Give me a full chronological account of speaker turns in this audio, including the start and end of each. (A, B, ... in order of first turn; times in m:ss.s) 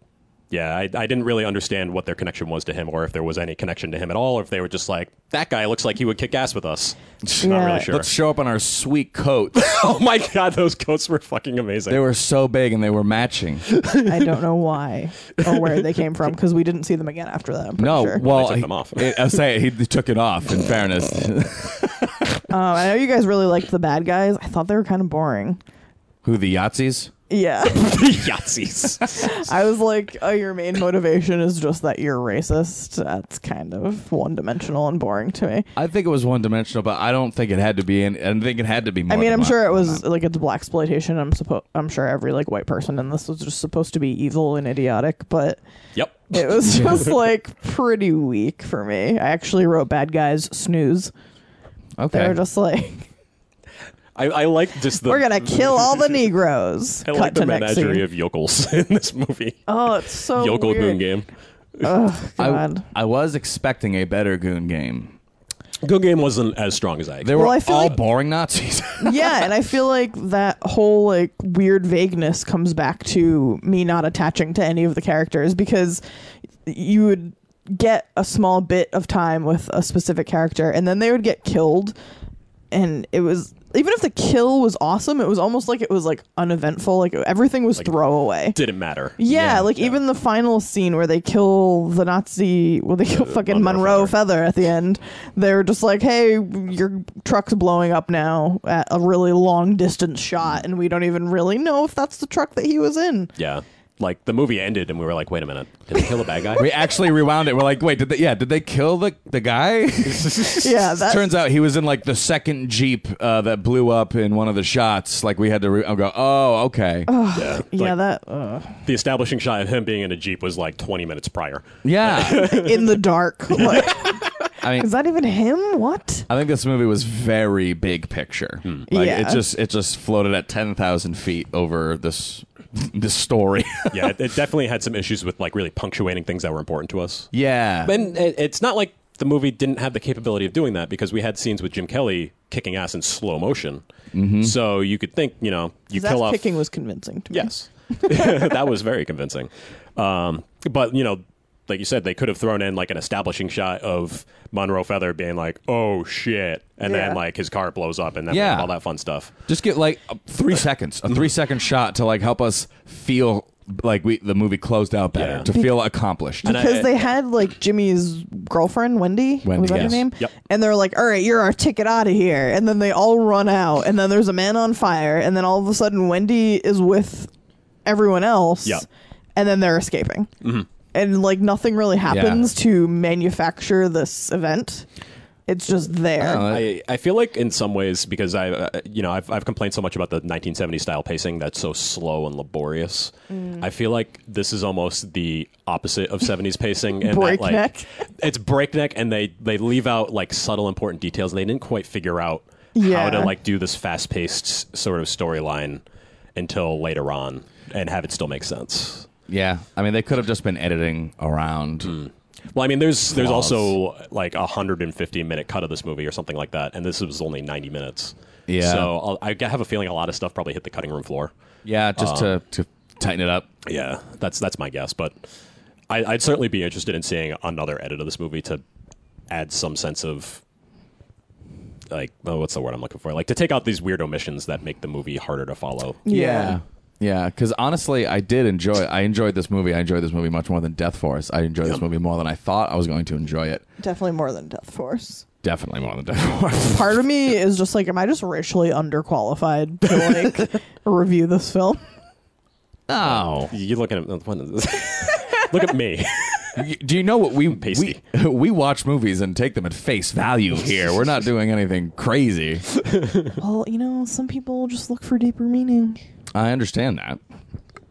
0:00.5-0:08.1 A
0:07.2-0:09.7 B
0:07.4-0:07.9 C
0:09.6-0:12.0 A
0:11.9-0:13.6 B
0:13.8-0:14.1 A
0:13.9-0:18.2 C
0:17.8-0:22.3 B
0:18.1-0:19.3 A
0:22.5-0:25.6 C
0:26.2-0:27.1 B
0:27.3-0:28.2 C
0:27.9-0:29.3 A
0:29.1-0:35.7 C
0:35.8-0:40.0 B
0:39.1-0:45.6 C
0:46.0-0:46.4 A
0:46.3-0:51.1 C
0:52.0-0:52.4 B
0:52.1-0:53.1 C
0:54.2-0:56.2 A
0:55.1-0:58.0 C
0:57.0-0:59.6 A
0:59.7-1:01.0 C
1:00.4-1:01.9 A
1:01.8-1:02.8 C
1:02.4-1:05.2 B
1:05.8-1:07.6 A
1:07.2-1:09.5 B
1:07.3-1:08.0 C
1:09.0-1:16.0 C
1:16.6-1:22.0 C
1:22.7-1:28.6 C
1:28.5-1:30.0 A
1:29.2-1:43.3 C
1:33.1-1:34.2 A
1:43.4-1:46.7 A
1:46.6-1:57.1 B
1:50.4-1:51.3 C
1:57.1-1:58.8 C
1:57.3-1:58.0 A
1:58.9-2:03.0 A
2:01.8-2:02.5 B
2:02.2-2:06.3 C
2:03.5-2:04.3 A
2:04.6-2:04.9 B
2:06.3-2:14.2 B
2:08.9-2:09.4 C
2:13.9-2:17.3 A
2:17.3-2:17.9 B
2:17.8-2:23.8 A
2:24.1-2:24.6 B
2:24.4-2:26.4 A
2:25.9-2:28.5 C
2:27.3-2:39.3 A
2:36.8-2:37.2 C
2:38.3-2:38.7 B
2:39.5-2:46.6 B
2:45.1-2:45.5 A
2:45.5-2:45.7 C
2:46.4-2:57.3 C
2:46.4-2:47.1 A
2:49.4-2:50.0 B
2:49.8-2:50.3 A
2:57.9-2:58.8 C
2:59.4-3:00.3 C
3:00.4-3:00.7 A
3:00.9-3:04.9 C
3:02.1-3:02.5 B
3:05.5-3:06.5 C
3:06.2-3:06.7 B
3:06.5-3:25.8 A
3:13.3-3:13.7 C
3:17.0-3:17.9 C
3:22.8-3:23.3 C
3:26.4-3:29.1 A
3:29.3-3:32.0 B
3:31.8-3:41.3 A
3:33.1-3:33.8 B
3:38.5-3:38.9 B
3:41.6-3:43.5 B
3:42.0-3:42.4 A
3:43.7-3:45.2 A
3:45.9-3:48.6 A
3:49.3-3:50.4 A
3:51.9-3:56.0 A
3:56.1-3:56.6 C
3:56.1-4:03.6 B
4:03.8-4:05.2 C
4:05.4-4:06.9 B
4:06.6-4:11.8 C
4:12.9-4:13.5 B
4:13.1-4:16.7 A
4:16.6-4:22.7 B
4:17.5-4:18.0 A
4:23.0-4:23.3 A
4:23.4-4:26.0 C
4:26.3-4:27.2 B